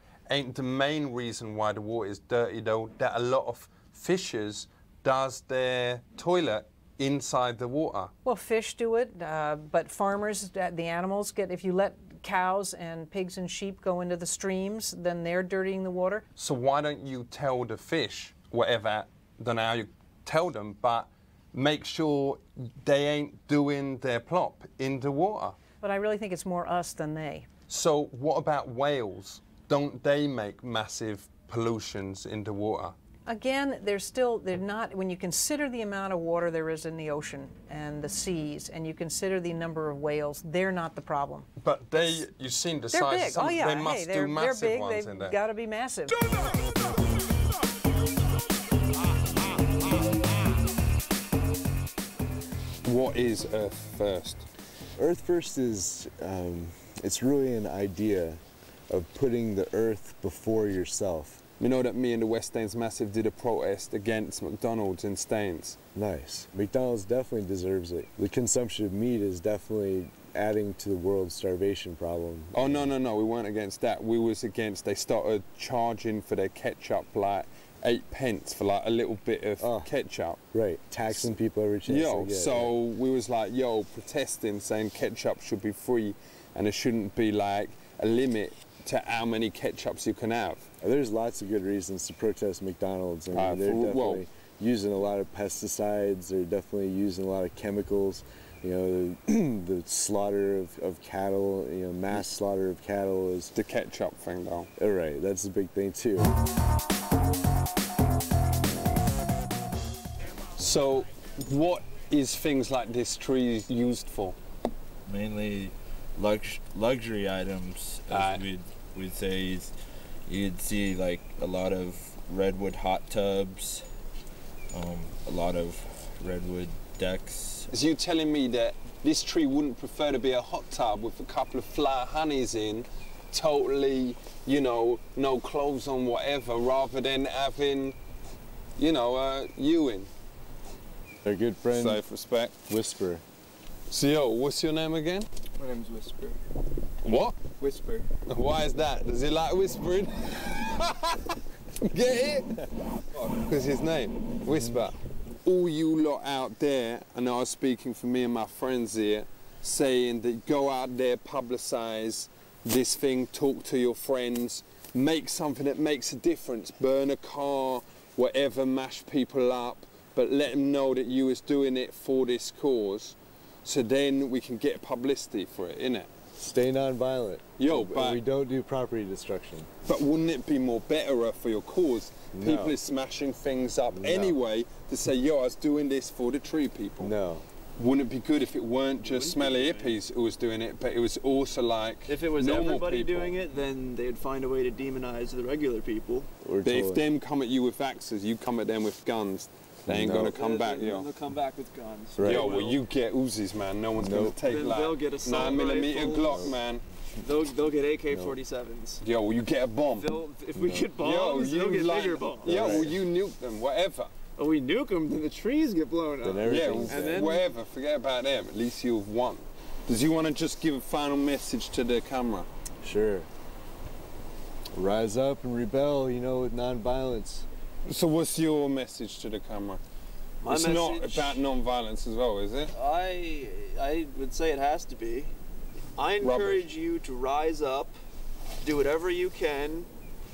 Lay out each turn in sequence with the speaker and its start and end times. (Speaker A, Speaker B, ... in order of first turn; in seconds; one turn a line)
Speaker A: 0.3-8.1
Speaker B: 8.2-16.2
Speaker A: 16.4-25.6
Speaker B: 25.8-27.5
Speaker A: 27.7-33.0
Speaker B: 33.3-41.5
Speaker A: 41.6-45.4
Speaker B: 42.9-46.2
Speaker A: 52.8-54.5
Speaker C: 55.0-61.4
Speaker A: 61.6-65.8
Speaker C: 66.0-72.9
Speaker A: 72.5-80.4
Speaker C: 79.6-79.9
Speaker C: 80.5-82.7
Speaker A: 81.9-90.7
Speaker C: 90.8-103.5
Speaker A: 93.3-94.2
Speaker A: 103.5-104.7
Speaker C: 104.8-106.3
Speaker A: 110.6-114.4
Speaker D: 115.1-119.7
Speaker A: 118.1-118.5
Speaker D: 120.3-123.9
Speaker D: 124.7-127.7
Speaker A: 127.7-138.0
Speaker A: 138.8-140.1
Speaker C: 141.2-142.0
Speaker A: 141.7-142.6
Speaker C: 142.7-143.2
Speaker A: 143.9-145.3
Speaker E: 145.6-146.4
Speaker A: 147.0-147.4
Speaker E: 147.6-148.1
Speaker A: 148.3-152.5
Speaker A: 153.2-176.1
Speaker C: 176.4-179.7
Speaker A: 177.6-178.2
Speaker A: 179.9-187.1
Speaker C: 182.3-182.8
Speaker C: 183.9-184.4
Speaker C: 187.0-187.4
Speaker A: 187.8-193.3
Speaker E: 189.0-189.9
Speaker E: 192.1-196.3
Speaker C: 196.4-197.1
Speaker A: 196.6-201.1
Speaker C: 199.9-200.3
Speaker E: 200.2-202.8
Speaker C: 202.2-202.6
Speaker A: 202.2-206.8
Speaker C: 204.0-204.4
Speaker E: 204.4-206.5
Speaker E: 207.2-209.0
Speaker C: 208.1-208.4
Speaker A: 209.0-210.1
Speaker E: 210.0-212.9
Speaker C: 210.6-210.9
Speaker A: 211.0-214.1
Speaker C: 212.4-213.0
Speaker E: 214.4-217.5
Speaker C: 216.2-217.3
Speaker A: 216.4-222.5
Speaker C: 222.8-223.3
Speaker C: 224.7-227.5
Speaker A: 227.9-229.8
Speaker E: 230.4-231.4
Speaker A: 230.5-232.7
Speaker E: 232.7-235.3
Speaker E: 236.0-238.0
Speaker A: 236.2-236.7
Speaker E: 238.6-239.9